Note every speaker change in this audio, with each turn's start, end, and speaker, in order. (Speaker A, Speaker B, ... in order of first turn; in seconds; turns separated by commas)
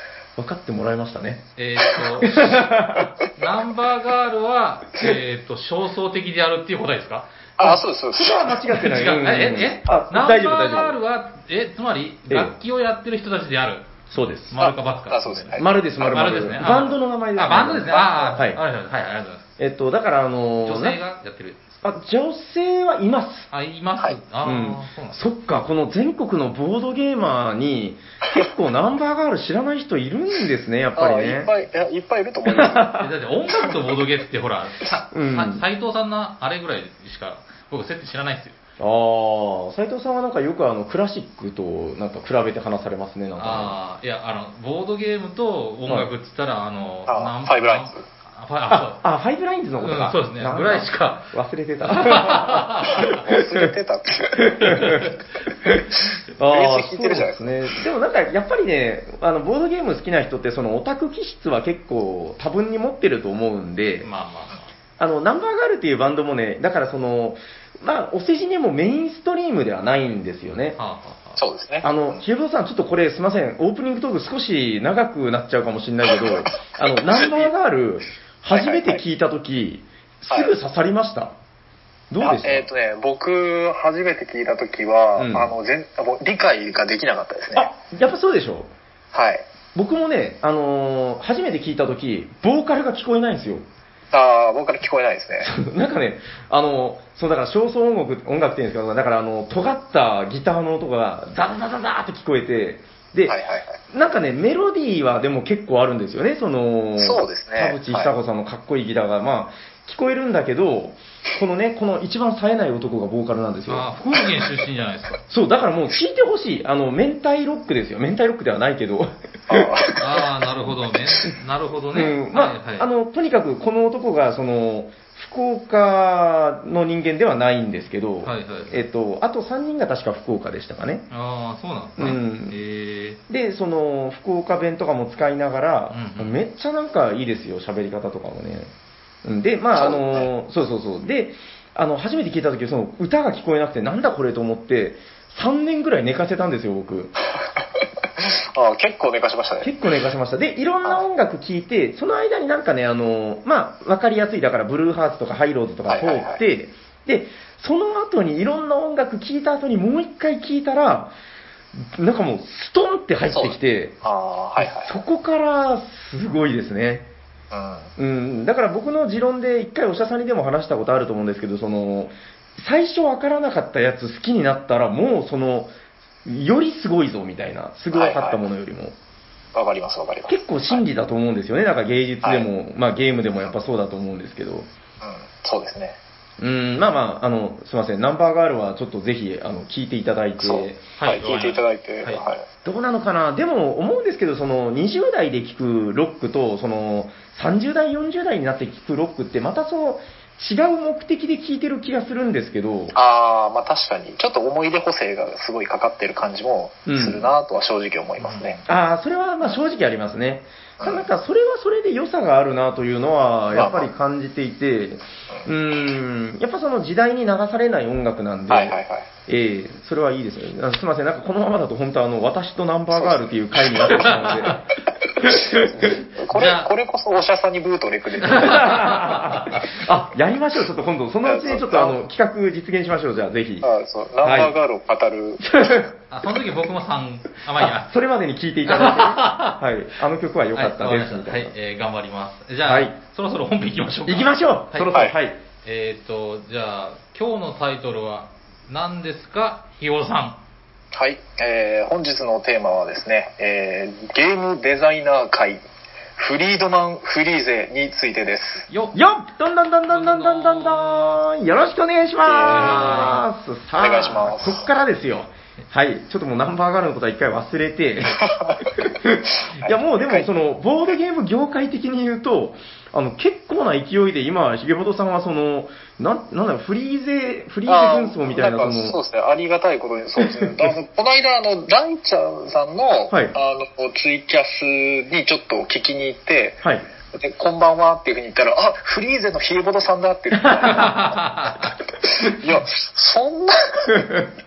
Speaker A: 0.4-1.4, Speaker B: 1.6-2.7, Speaker A: 2.2-3.1, Speaker B: 3.4-7.3, Speaker C: 7.6-8.6, Speaker A: 7.6-11.0, Speaker B: 8.7-19.4, Speaker A: 12.3-12.5, Speaker A: 14.1-14.5, Speaker C: 14.6-16.4, Speaker A: 15.6-18.6, Speaker A: 19.6-21.0, Speaker B: 20.6-21.8, Speaker A: 21.8-23.5, Speaker B: 23.5-25.2, Speaker A: 24.4-31.5, Speaker C: 31.0-32.9, Speaker A: 32.5-33.1, Speaker B: 33.0-38.6, Speaker A: 35.1-35.6, Speaker A: 38.8-43.7, Speaker B: 43.4-49.0, Speaker C: 47.1-48.0, Speaker A: 48.7-53.6, Speaker B: 49.8-51.2, Speaker B: 51.8-53.2, Speaker C: 52.9-55.0, Speaker A: 54.4-64.1, Speaker B: 54.6-55.1, Speaker C: 56.5-57.7, Speaker B: 64.0-64.7, Speaker A: 65.0-70.8, Speaker B: 70.8-71.4, Speaker C: 71.4-72.2, Speaker A: 71.8-81.3, Speaker C: 76.2-77.3, Speaker C: 78.5-79.0, Speaker A: 82.1-82.7, Speaker C: 82.2-87.7, Speaker A: 85.2-85.5, Speaker A: 87.5-88.7, Speaker C: 89.1-89.5, Speaker A: 89.7-93.6, Speaker C: 94.1-95.5, Speaker A: 95.4-103.4, Speaker C: 103.3-103.8, Speaker A: 103.9-113.9, Speaker C: 107.0-108.1, Speaker B: 113.7-115.2, Speaker A: 115.3-119.8, Speaker C: 119.5-120.3, Speaker B: 120.0-122.9, Speaker A: 121.9-131.1, Speaker B: 128.2-128.8, Speaker B: 131.1-133.2, Speaker A: 132.0-132.5, Speaker A: 133.3-138.7, Speaker B: 135.9-136.4, Speaker A: 139.2-147.1, Speaker C: 139.8-140.3, Speaker C: 148.2-149.7, Speaker A: 149.6-161.1, Speaker C: 155.9-156.4, Speaker A: 161.8-164.0, Speaker C: 163.3-165.0, Speaker A: 164.6-167.1, Speaker C: 167.5-167.9, Speaker A: 168.0-175.7, Speaker A: 176.2-178.9, Speaker C: 177.9-178.4, Speaker C: 179.5-180.8, Speaker A: 180.3-184.7, Speaker C: 182.2-182.5, Speaker C: 185.0-186.0, Speaker A: 186.4-190.8, Speaker C: 190.4-192.4, Speaker B: 191.0-192.2, Speaker A: 192.6-202.9, Speaker C: 202.9-208.6, Speaker A: 206.8-207.3, Speaker B: 208.2-208.6, Speaker A: 208.7-224.6, Speaker C: 210.8-211.1, Speaker C: 213.5-213.9, Speaker C: 218.5-219.1, Speaker C: 222.9-224.4, Speaker B: 223.9-224.6, Speaker C: 225.1-228.8, Speaker A: 225.2-226.0, Speaker B: 226.3-226.7, Speaker B: 228.2-229.7, Speaker A: 228.3-233.7, Speaker C: 231.2-232.0, Speaker C: 233.6-235.6, Speaker A: 234.2-234.5, Speaker A: 235.4-235.9, Speaker B: 236.1-237.9, Speaker A: 237.6-241.5, Speaker B: 238.7-239.6, Speaker B: 240.5-244.9, Speaker A: 242.6-242.9, Speaker A: 244.1-245.4, Speaker B: 245.6-250.4, Speaker C: 250.9-255.6, Speaker C: 256.2-258.7, Speaker B: 258.7-259.0, Speaker A: 258.9-279.0, Speaker B: 259.9-261.2, Speaker C: 262.2-263.2, Speaker B: 262.4-263.2, Speaker C: 263.8-264.7, Speaker C: 268.1-268.8, Speaker C: 269.4-270.3, Speaker C: 277.7-286.6, Speaker A: 280.2-280.7, Speaker C: 287.1-294.2, Speaker A: 290.4-290.9, Speaker B: 290.6-291.7, Speaker A: 293.9-294.3